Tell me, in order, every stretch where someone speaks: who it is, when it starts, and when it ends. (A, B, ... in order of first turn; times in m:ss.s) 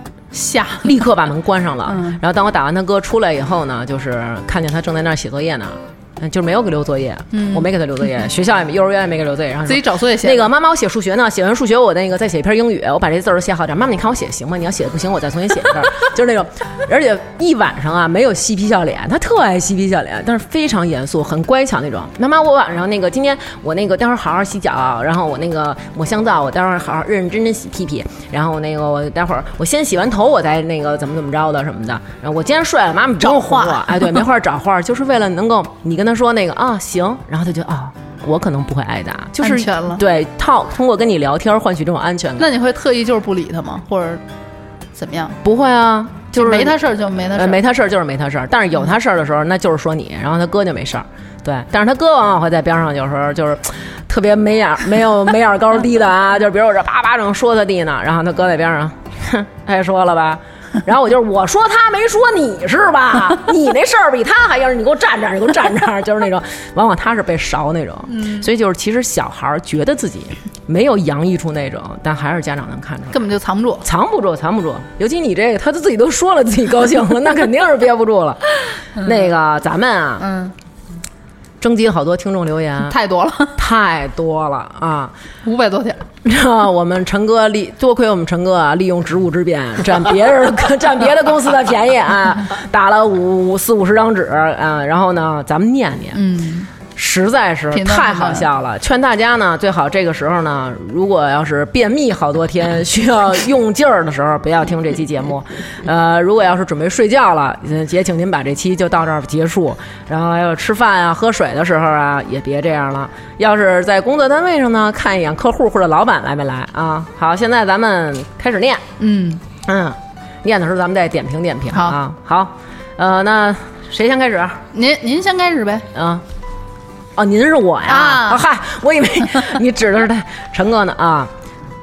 0:00.3-0:01.0 A
0:00.8-0:42.5 B
0:01.8-0:02.2 A
0:07.3-0:07.7 A
0:09.7-0:10.5 A
0:33.2-0:34.2 A
0:39.4-0:40.0 A
0:42.4-0:44.2 A
0:45.0-0:45.4 A
0:45.4-0:46.7 B
0:46.3-0:47.6 A
0:47.3-1:13.2 B
1:08.1-1:08.4 A
1:13.1-1:13.8 A
1:13.8-1:20.2 B
1:19.0-1:19.3 A
1:20.2-1:20.5 A
1:21.6-1:22.9 B
1:22.8-1:23.5 A
1:23.6-1:25.1 B
1:25.4-1:26.0 A
1:26.2-1:36.2 B
1:36.1-1:36.7 A
1:36.9-1:58.8 B
1:37.7-1:38.5 A
1:59.0-1:59.4 A
1:59.6-2:04.6 B
2:01.7-2:02.0 A
2:04.7-2:05.8 A
2:05.9-2:06.2 B
2:07.2-2:11.3 B
2:07.9-2:08.4 A